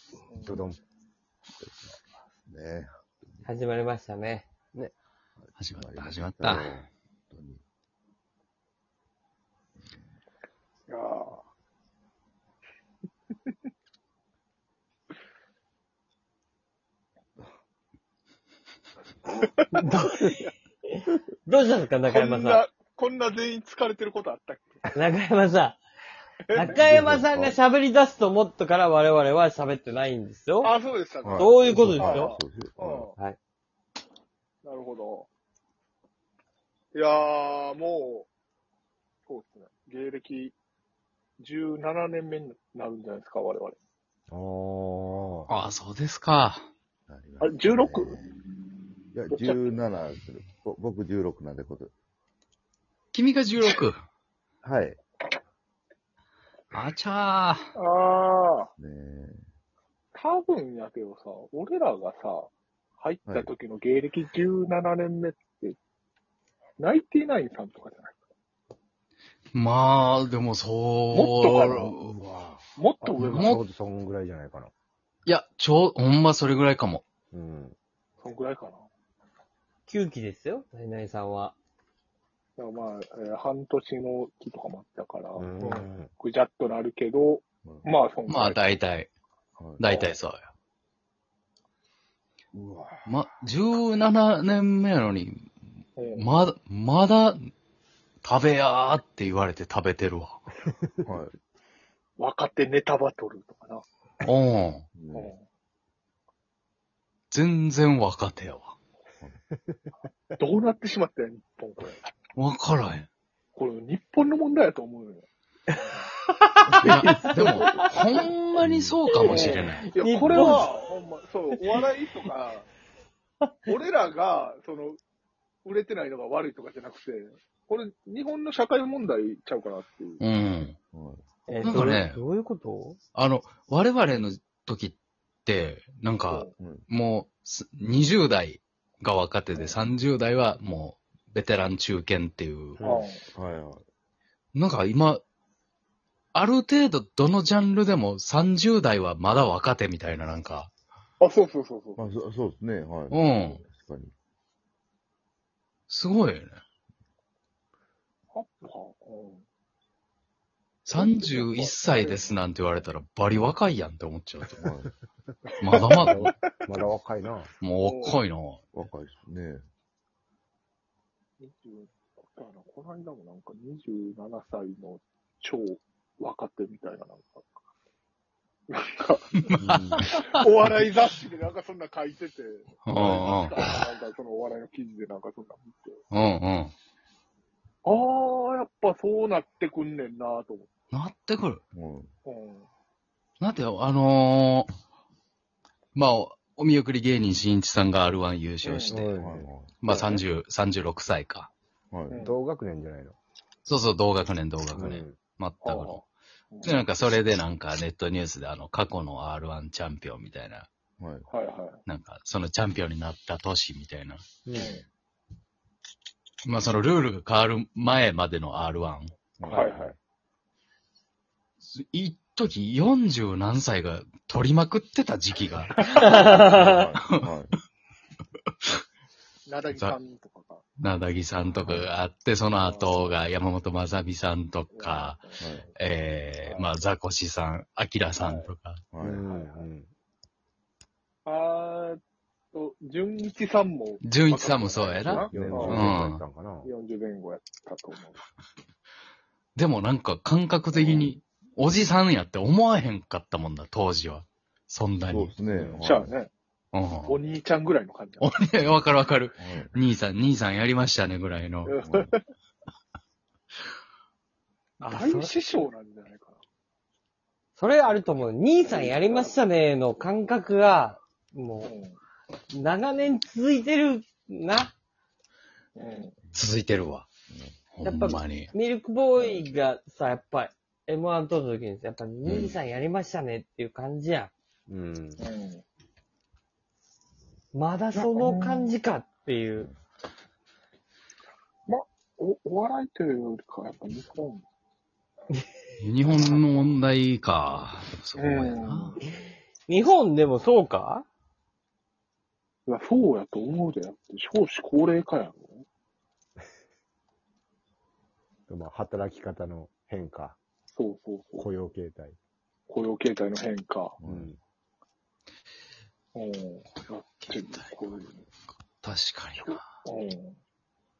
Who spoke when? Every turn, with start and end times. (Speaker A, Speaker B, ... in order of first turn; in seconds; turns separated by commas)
Speaker A: 0.3-0.7, Speaker B: 0.4-0.8, Speaker C: 1.6-1.9, Speaker C: 2.5-2.9, Speaker D: 3.4-4.9, Speaker C: 5.4-7.6, Speaker E: 5.6-6.8, Speaker A: 10.9-11.4, Speaker D: 19.7-22.6, Speaker A: 22.1-24.8, Speaker D: 24.9-25.8, Speaker A: 26.5-26.8, Speaker D: 26.5-30.7, Speaker C: 26.8-27.6, Speaker A: 30.6-33.1, Speaker C: 31.2-33.1, Speaker D: 31.3-32.3, Speaker A: 34.6-35.3, Speaker A: 36.9-38.3, Speaker A: 39.3-40.5, Speaker A: 41.4-43.8, Speaker B: 44.3-45.5, Speaker E: 45.5-46.7, Speaker C: 47.1-48.3, Speaker A: 47.4-48.1, Speaker C: 49.1-51.9, Speaker A: 49.3-49.7, Speaker E: 53.1-54.0, Speaker C: 54.6-55.0, Speaker E: 56.7-57.7, Speaker A: 57.8-58.7, Speaker C: 58.8-59.4, Speaker A: 60.1-65.8, Speaker C: 63.2-63.5, Speaker A: 66.8-68.2, Speaker E: 69.5-72.3, Speaker A: 71.1-72.0, Speaker B: 72.2-74.7, Speaker A: 72.8-73.6, Speaker E: 73.2-73.6, Speaker E: 75.2-77.0, Speaker B: 77.3-77.8, Speaker A: 78.2-78.9, Speaker D: 79.9-81.5, Speaker A: 82.6-88.8, Speaker B: 85.4-86.1, Speaker C: 87.6-87.9, Speaker E: 88.3-89.1, Speaker C: 89.6-89.9, Speaker E: 89.8-90.5, Speaker A: 89.9-90.2, Speaker A: 92.5-92.9, Speaker E: 93.0-95.5, Speaker A: 96.0-96.3, Speaker E: 96.1-97.5, Speaker E: 98.2-100.4, Speaker C: 101.0-101.3, Speaker A: 102.2-103.8, Speaker E: 104.2-104.8, Speaker C: 104.9-105.3, Speaker A: 105.1-105.4, Speaker E: 107.3-108.7, Speaker A: 110.4-112.0, Speaker E: 112.3-113.1, Speaker A: 113.5-115.3, Speaker D: 116.4-118.3, Speaker C: 116.7-117.8, Speaker E: 116.8-119.9, Speaker C: 118.6-119.2, Speaker A: 119.2-122.7, Speaker D: 119.2-120.7, Speaker C: 120.2-120.6, Speaker A: 123.7-125.0, Speaker A: 125.6-130.2, Speaker E: 130.2-130.8, Speaker C: 130.9-131.2, Speaker A: 131.5-132.0, Speaker D: 131.5-133.0, Speaker E: 131.6-132.2, Speaker E: 133.1-142.8, Speaker C: 136.3-136.8, Speaker B: 142.8-143.1, Speaker A: 142.8-143.2, Speaker C: 143.3-143.8, Speaker E: 144.5-145.2, Speaker E: 146.3-150.7, Speaker A: 151.2-152.1, Speaker C: 152.0-154.1, Speaker E: 153.1-153.6, Speaker E: 155.9-156.6, Speaker A: 158.3-159.4, Speaker E: 160.8-164.6, Speaker A: 160.9-162.4, Speaker C: 164.6-164.9, Speaker E: 165.6-166.2, Speaker A: 165.6-166.4, Speaker B: 165.9-167.5, Speaker E: 167.6-168.6, Speaker A: 167.8-168.2, Speaker C: 168.7-169.7, Speaker A: 171.4-177.5, Speaker A: 178.7-179.5, Speaker E: 179.4-180.4, Speaker B: 179.6-180.1, Speaker A: 180.0-186.0, Speaker E: 182.8-183.6, Speaker E: 186.1-186.7, Speaker A: 187.8-190.7, Speaker E: 190.9-191.6, Speaker C: 191.7-192.1, Speaker A: 192.2-192.7, Speaker E: 193.4-194.7, Speaker E: 195.9-199.2, Speaker A: 198.6-199.0, Speaker B: 198.8-199.5, Speaker C: 199.1-199.9, Speaker E: 199.8-201.5, Speaker C: 201.9-202.2, Speaker B: 202.1-203.2, Speaker E: 203.6-206.1, Speaker B: 204.7-205.2, Speaker A: 205.6-206.8, Speaker E: 206.6-210.7, Speaker C: 211.0-211.3, Speaker A: 211.3-211.8, Speaker E: 211.8-214.2, Speaker B: 214.4-214.8, Speaker A: 214.5-214.8, Speaker E: 216.4-219.1, Speaker C: 219.4-219.9, Speaker A: 219.4-219.9, Speaker E: 221.7-226.1, Speaker A: 225.8-226.3, Speaker D: 225.9-226.7, Speaker C: 226.2-227.5, Speaker E: 226.9-227.3, Speaker A: 229.4-230.6, Speaker E: 229.7-229.9, Speaker E: 230.8-238.8, Speaker C: 231.6-231.9, Speaker A: 232.6-233.1, Speaker A: 234.7-235.6, Speaker C: 235.4-235.7, Speaker A: 238.2-238.5, Speaker C: 238.9-239.2, Speaker B: 239.0-239.9, Speaker A: 239.2-239.7, Speaker A: 241.2-242.0, Speaker A: 242.5-246.0, Speaker E: 244.0-246.2, Speaker B: 245.0-246.7, Speaker C: 245.3-245.9, Speaker A: 246.6-248.2, Speaker E: 249.5-255.3, Speaker A: 250.7-251.0, Speaker C: 255.1-256.1, Speaker B: 255.4-255.9, Speaker A: 255.8-256.3, Speaker E: 256.7-257.2, Speaker A: 257.1-258.3, Speaker E: 258.2-261.8, Speaker C: 259.4-259.8, Speaker A: 261.6-262.1, Speaker C: 261.8-262.1, Speaker A: 264.8-266.4, Speaker D: 264.8-265.6, Speaker D: 267.6-271.7, Speaker A: 268.6-269.3, Speaker A: 271.6-272.0, Speaker D: 272.5-274.7, Speaker A: 275.8-276.1, Speaker E: 276.3-277.1, Speaker E: 277.7-278.5, Speaker D: 277.8-284.3, Speaker A: 279.2-279.4, Speaker C: 282.2-282.6, Speaker B: 284.7-285.2, Speaker A: 285.2-285.6, Speaker D: 287.5-289.7, Speaker A: 287.9-288.7, Speaker A: 291.7-294.4, Speaker E: 295.8-299.0, Speaker A: 298.2-299.0, Speaker D: 299.6-301.1, Speaker A: 302.6-305.6, Speaker B: 308.5-310.4, Speaker A: 310.7-311.4, Speaker B: 311.4-312.2, Speaker A: 312.7-314.0, Speaker C: 314.0-314.3, Speaker B: 314.0-314.4, Speaker A: 316.1-318.2, Speaker E: 317.1-318.0, Speaker E: 318.8-319.7, Speaker A: 319.4-320.3